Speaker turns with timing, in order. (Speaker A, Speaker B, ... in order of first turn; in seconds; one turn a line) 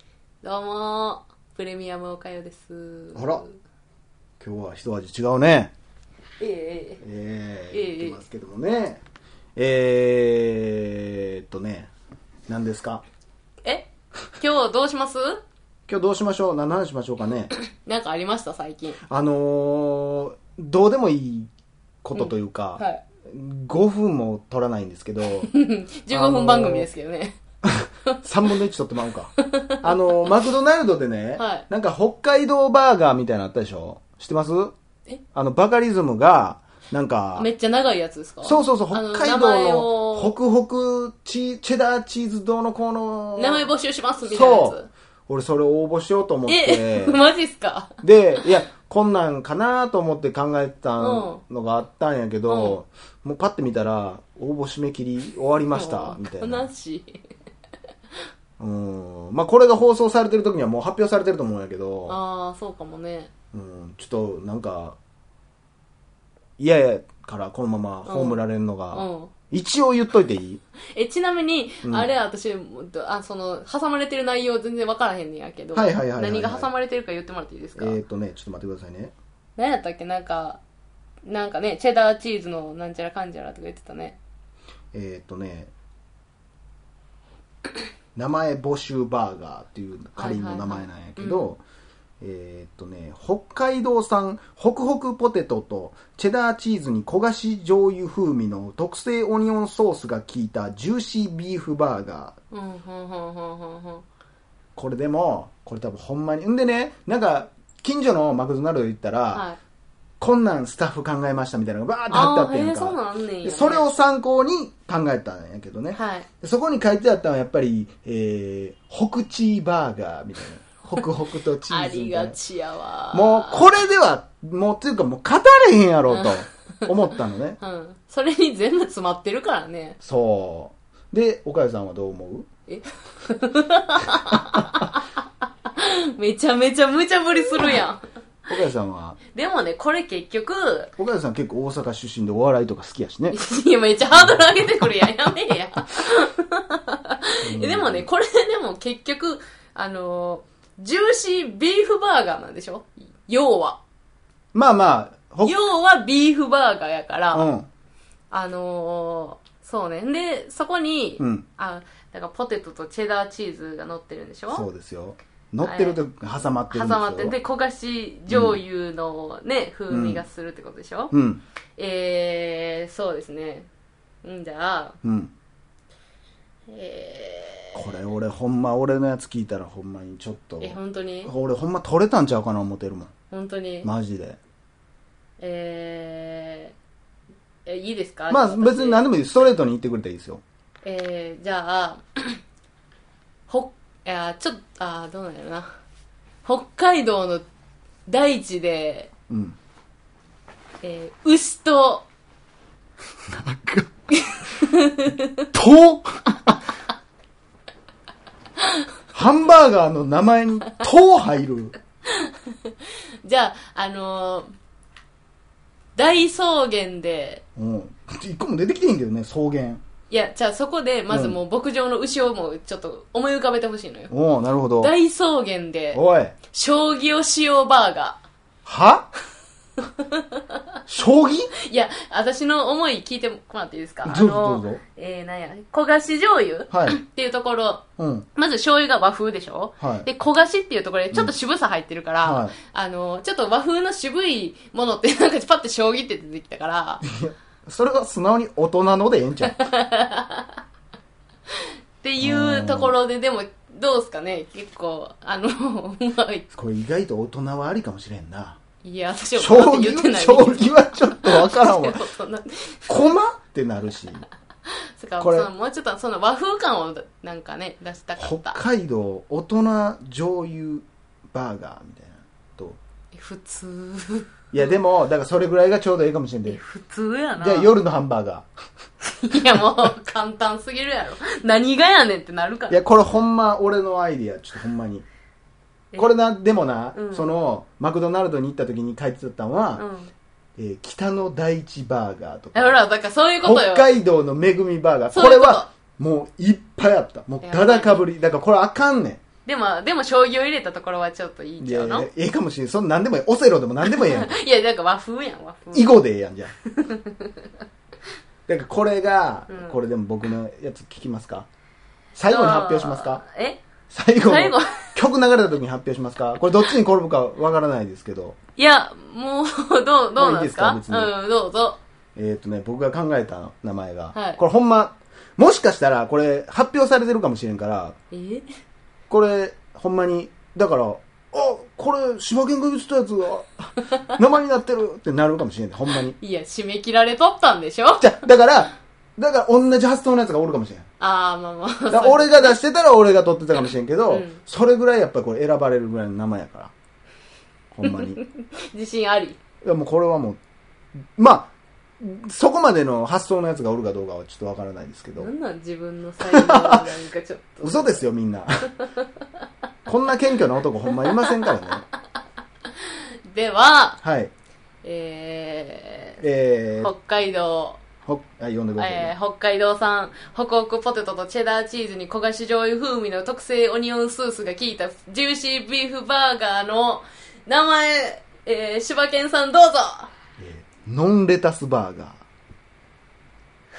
Speaker A: 0.4-3.6
Speaker B: 3.1-3.4
Speaker B: 4.4-5.7
Speaker A: 6.4-7.0
Speaker B: 7.0-9.0
Speaker A: 7.7-8.2
Speaker B: 9.6-11.9
Speaker B: 12.5-13.0
Speaker A: 13.6-15.4
Speaker B: 15.9-17.5
Speaker A: 17.7-19.0
Speaker B: 19.1-21.5
Speaker B: 22.0-25.5
Speaker A: 22.1-23.0
Speaker A: 25.4-27.4
Speaker B: 26.1-26.9
Speaker B: 27.6-34.7
Speaker A: 29.5-29.8
Speaker A: 31.4-31.6
Speaker B: 35.3-37.5
Speaker A: 37.4-40.4
Speaker B: 38.4-43.7
Speaker A: 43.4-44.9
Speaker B: 44.2-47.2
Speaker A: 46.5-48.0
Speaker B: 48.0-56.7
Speaker A: 51.0-51.4
Speaker A: 52.5-52.8
Speaker A: 55.7-57.2
Speaker B: 58.6-62.2
Speaker A: 62.1-63.3
Speaker B: 63.5-65.0
Speaker B: 66.6-70.6
Speaker A: 68.0-69.3
Speaker A: 71.0-78.0
Speaker B: 71.8-72.1
Speaker B: 75.8-76.7
Speaker B: 77.8-79.1
Speaker A: 79.6-80.6
Speaker A: 81.2-84.2
Speaker B: 84.9-85.7
Speaker B: 88.2-91.6
Speaker A: 90.2-91.5
Speaker B: 92.2-102.4
Speaker A: 102.5-104.0
Speaker B: 104.8-109.5
Speaker A: 109.3-109.6
Speaker B: 110.2-122.4
Speaker A: 112.1-113.9
Speaker A: 115.9-116.3
Speaker A: 121.7-123.7
Speaker B: 123.1-127.6
Speaker A: 126.1-126.9
Speaker A: 127.6-130.0
Speaker B: 130.0-132.5
Speaker A: 132.7-135.1
Speaker A: 135.7-138.0
Speaker B: 138.5-139.2
Speaker A: 139.3-140.9
Speaker B: 141.0-143.4
Speaker A: 143.3-153.8
Speaker B: 147.4-148.1
Speaker B: 154.5-155.6
Speaker A: 155.4-157.5
Speaker B: 157.3-157.7
Speaker A: 158.3-164.7
Speaker B: 161.2-161.5
Speaker B: 164.5-167.4
Speaker A: 165.6-166.0
Speaker A: 166.7-171.1
Speaker B: 168.3-168.6
Speaker B: 169.9-170.2
Speaker B: 171.1-171.4
Speaker A: 171.8-173.7
Speaker A: 174.2-175.0
Speaker B: 175.0-175.3
Speaker A: 176.7-177.9
Speaker B: 177.8-183.1
Speaker A: 180.6-181.3
Speaker A: 183.3-183.9
Speaker B: 183.8-184.4
Speaker A: 185.4-186.7
Speaker A: 187.7-189.1
Speaker B: 188.3-190.4
Speaker A: 190.8-192.4
Speaker A: 193.5-195.7
Speaker A: 196.4-197.4
Speaker A: 198.1-199.1
Speaker B: 199.3-199.6
Speaker A: 200.8-202.1
Speaker B: 203.3-203.9
Speaker A: 204.3-205.4
Speaker B: 205.5-206.6
Speaker B: 209.1-211.8
Speaker A: 212.2-212.7
Speaker A: 213.2-214.5
Speaker A: 216.0-217.4
Speaker B: 217.6-219.8
Speaker A: 220.1-224.1
Speaker B: 221.1-221.4
Speaker B: 224.1-224.9
Speaker A: 224.8-228.2
Speaker B: 225.9-226.3
Speaker B: 228.7-229.1
Speaker A: 230.0-230.6
Speaker B: 230.9-231.5
Speaker A: 231.6-247.0
Speaker B: 234.1-234.8
Speaker B: 236.7-237.0
Speaker B: 238.0-238.3
Speaker B: 239.8-240.1
Speaker B: 242.2-242.6
Speaker B: 247.0-249.6
Speaker A: 249.5-250.5
Speaker A: 252.0-256.4
Speaker B: 252.2-252.9
Speaker B: 256.5-258.6
Speaker A: 258.8-263.0
Speaker B: 259.4-262.0
Speaker B: 262.9-264.3
Speaker A: 265.0-268.6
Speaker B: 265.2-265.5
Speaker B: 268.2-272.8
Speaker A: 273.1-274.4
Speaker B: 274.5-276.6
Speaker A: 276.5-277.8
Speaker B: 277.4-278.5
Speaker A: 279.1-282.8
Speaker B: 282.7-285.1
Speaker A: 285.9-286.2
Speaker B: 286.0-289.8
Speaker A: 286.9-287.3
Speaker A: 289.8-290.1
Speaker B: 290.6-292.8
Speaker A: 292.5-293.9
Speaker B: 293.4-299.2
Speaker A: 295.1-295.7
Speaker A: 297.4-298.1
Speaker A: 299.4-302.1
Speaker B: 301.6-304.3
Speaker A: 303.9-305.9
Speaker B: 305.7-306.5
Speaker A: 306.7-307.5
Speaker B: 308.5-311.5
Speaker A: 309.5-309.8
Speaker B: 312.2-313.2
Speaker A: 312.3-313.6
Speaker B: 313.9-318.4
Speaker A: 314.2-315.0
Speaker A: 318.6-321.8
Speaker B: 320.2-321.1
Speaker B: 322.2-327.9
Speaker A: 324.1-324.4
Speaker A: 328.1-328.5
Speaker B: 329.1-336.2
Speaker A: 336.2-338.1
Speaker B: 338.0-340.9
Speaker A: 341.0-342.6
Speaker B: 341.9-346.7
Speaker A: 344.1-344.4
Speaker B: 347.7-348.2
Speaker A: 347.8-349.4
Speaker B: 349.6-350.4
Speaker B: 351.2-355.3
Speaker A: 355.2-358.0
Speaker B: 356.2-356.9
Speaker B: 357.6-358.7
Speaker B: 359.9-361.8
Speaker A: 361.2-361.5
Speaker A: 363.3-364.0
Speaker B: 364.0-364.3
Speaker A: 364.8-366.2
Speaker B: 366.2-366.9
Speaker A: 366.8-367.8
Speaker B: 368.1-369.1
Speaker A: 368.8-380.1
Speaker B: 380.4-382.2